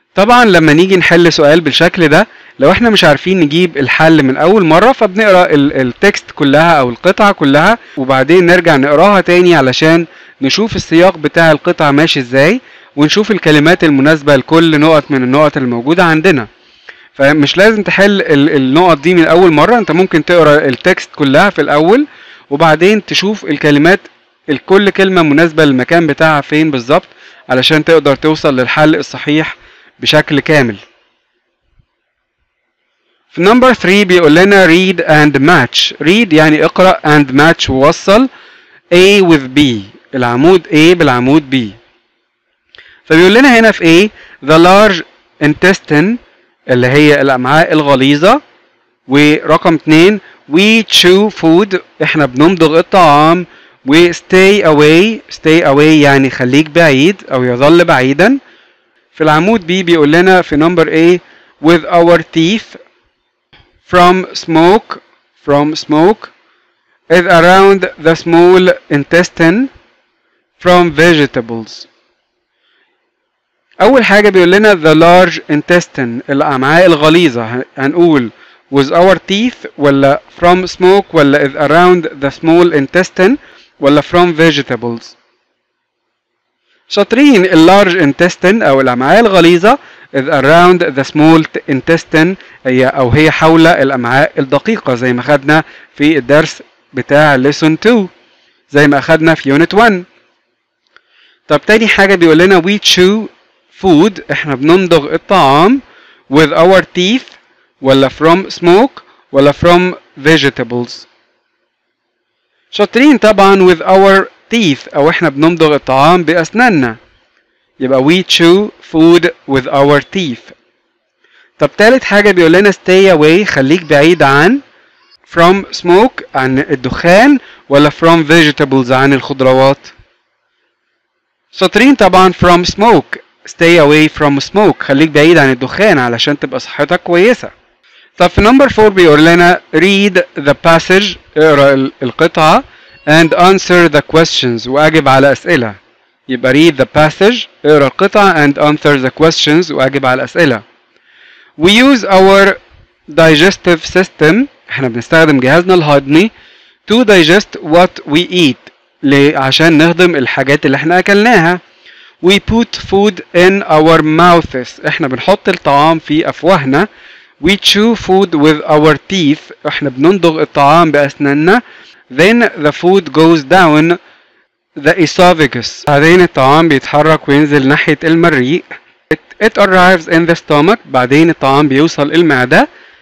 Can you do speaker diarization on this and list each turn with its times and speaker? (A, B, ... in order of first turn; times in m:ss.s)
0:00.2-0:16.5 A
0:17.2-0:30.8 A
0:33.3-0:38.3 A
0:38.9-0:41.8 A
0:43.1-0:48.4 A
0:49.1-0:58.4 A
0:59.1-1:02.8 A
1:03.9-1:06.3 A
1:07.1-1:09.7 A
1:10.6-1:11.9 A
1:13.8-1:25.2 A
1:26.9-1:38.1 A
1:38.7-1:40.1 A
1:41.5-1:51.1 A
1:52.7-1:57.0 A
1:57.8-2:00.6 A
2:01.6-2:04.6 A
2:05.3-2:09.9 A
2:11.5-2:17.5 A
2:18.2-2:25.8 A
2:26.3-2:30.6 A
2:31.6-2:36.3 A
2:36.9-2:41.6 A
2:42.2-2:46.9 A
2:47.4-2:54.0 A
2:54.8-3:02.7 A